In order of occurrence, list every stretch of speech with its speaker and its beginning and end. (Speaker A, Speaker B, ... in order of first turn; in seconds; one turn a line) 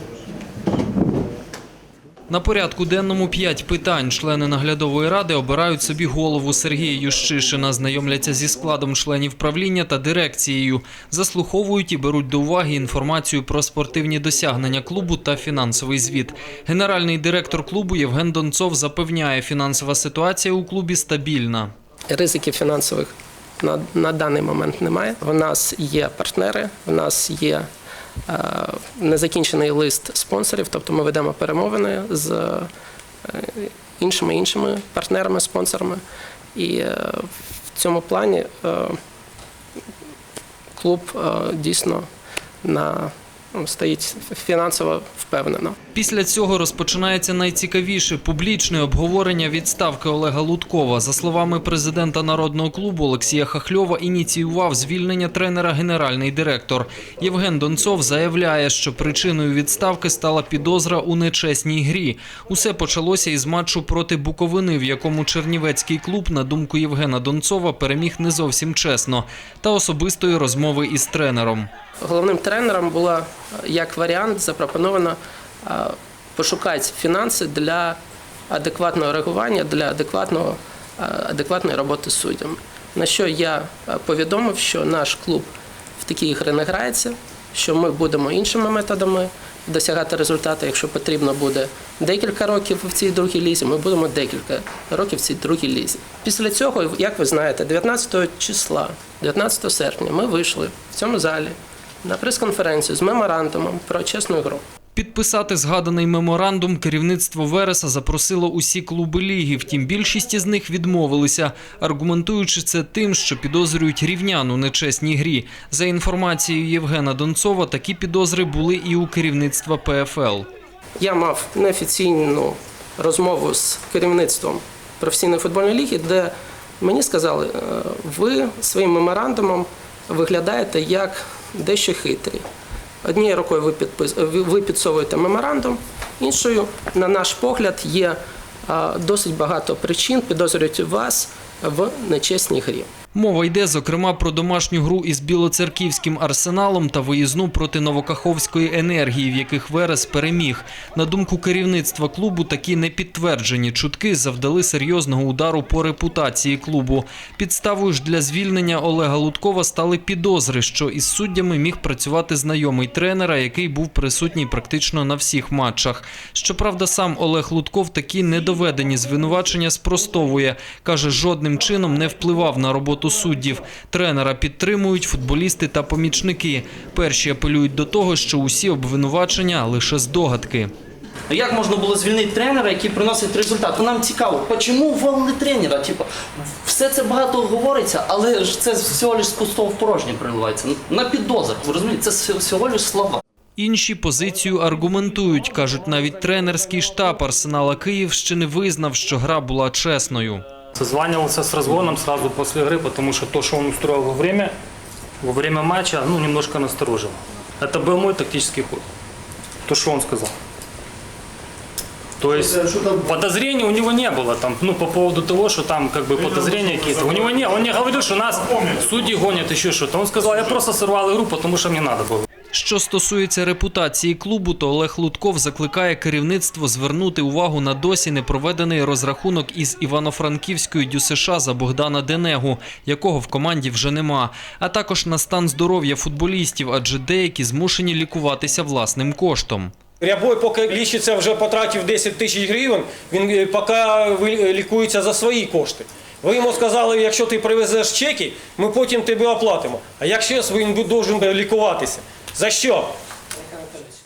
Speaker A: 2.3-21.7
Speaker B: 22.1-27.7
Speaker B: 28.3-32.7
Speaker B: 33.2-36.0
Speaker B: 36.5-39.0
Speaker B: 40.8-42.0
Speaker B: 42.6-45.8
Speaker A: 45.9-71.7
Speaker B: 72.0-78.0
Speaker B: 78.5-85.5
Speaker B: 86.0-104.6
Speaker A: 105.0-120.5
Speaker B: 121.0-132.4
Speaker B: 133.0-142.9
Speaker A: 143.1-180.7
Speaker C: 181.3-193.2
Speaker A: 193.6-200.4
Speaker D: 200.8-204.5
Speaker D: 205.2-208.8
Speaker D: 209.7-210.3
Speaker D: 212.2-222.3
Speaker A: 222.5-239.8
Speaker E: 240.0-252.9